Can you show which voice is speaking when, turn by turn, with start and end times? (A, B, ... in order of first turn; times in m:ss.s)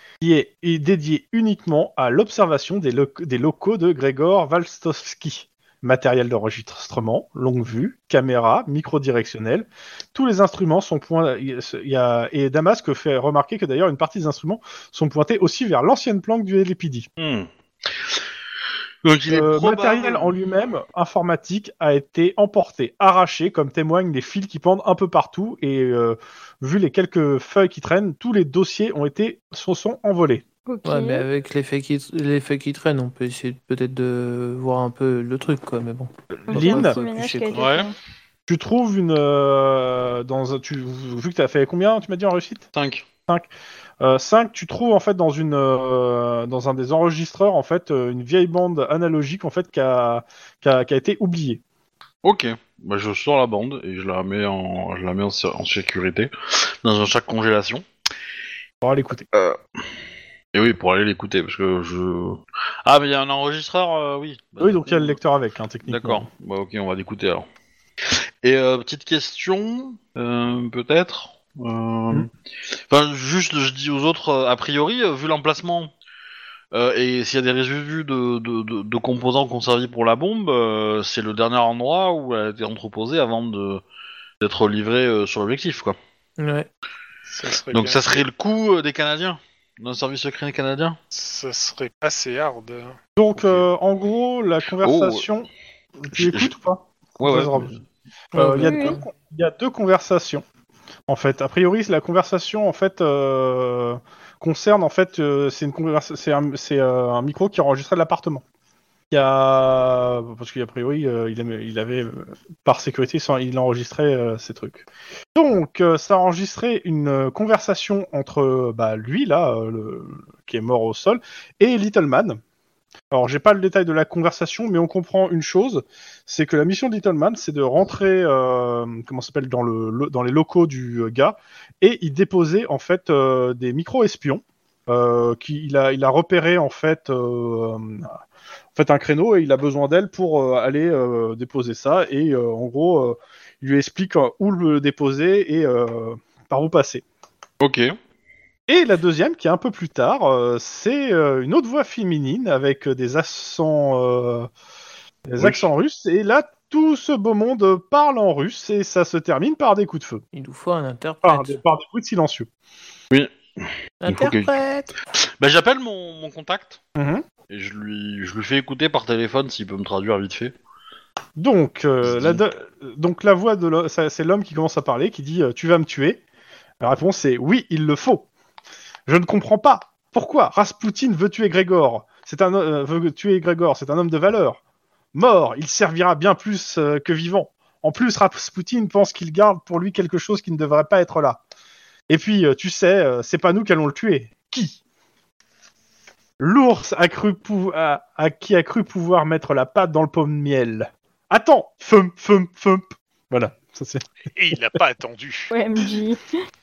0:00.2-0:17.1 A
0:17.2-0:18.2 B
0:19.0-0:20.3 B
0:19.3-0:30.4 A
0:30.7-0:31.3 C
0:30.8-0:37.6 D
0:36.4-0:37.0 A
0:36.5-0:37.9 C
0:37.5-0:37.9 B
0:38.5-0:42.7 A
0:42.7-0:43.0 B
0:44.0-0:51.6 A
0:52.2-0:57.8 B
0:58.8-0:59.3 A
0:59.3-0:59.6 B
1:00.5-1:05.2 B
1:04.6-1:06.3 A
1:05.9-1:07.5 B
1:08.1-1:12.3 B
1:12.9-1:15.9 B
1:16.7-1:23.8 B
1:24.4-1:26.0 B
1:26.4-1:26.7 D
1:27.3-1:28.2 E
1:27.7-1:31.0 B
1:31.1-1:33.0 E
1:33.2-1:35.5 A
1:33.4-1:33.7 B
1:34.8-1:35.2 B
1:36.0-1:37.7 A
1:36.1-1:36.5 B
1:37.2-1:37.8 B
1:38.3-1:40.4 A
1:38.3-1:39.0 D
1:38.6-1:39.0 C
1:41.1-1:48.4 A
1:49.1-2:02.4 A
2:03.1-2:18.2 A
2:18.7-2:27.0 A
2:27.6-2:28.0 B
2:28.7-2:34.5 A
2:35.3-2:40.2 A
2:35.4-2:35.6 B
2:40.3-2:41.6 D
2:41.2-2:42.5 A
2:43.1-2:44.5 B
2:44.0-2:44.9 D
2:45.1-2:46.8 B
2:46.9-2:47.2 A
2:47.5-2:50.5 B
2:51.4-2:56.2 A
2:52.0-2:52.4 B
2:56.8-2:58.3 A
2:59.1-3:04.6 A
3:05.1-3:11.4 A
3:12.1-3:14.8 A
3:16.4-3:24.1 A
3:24.3-3:25.5 E
3:25.5-3:26.3 C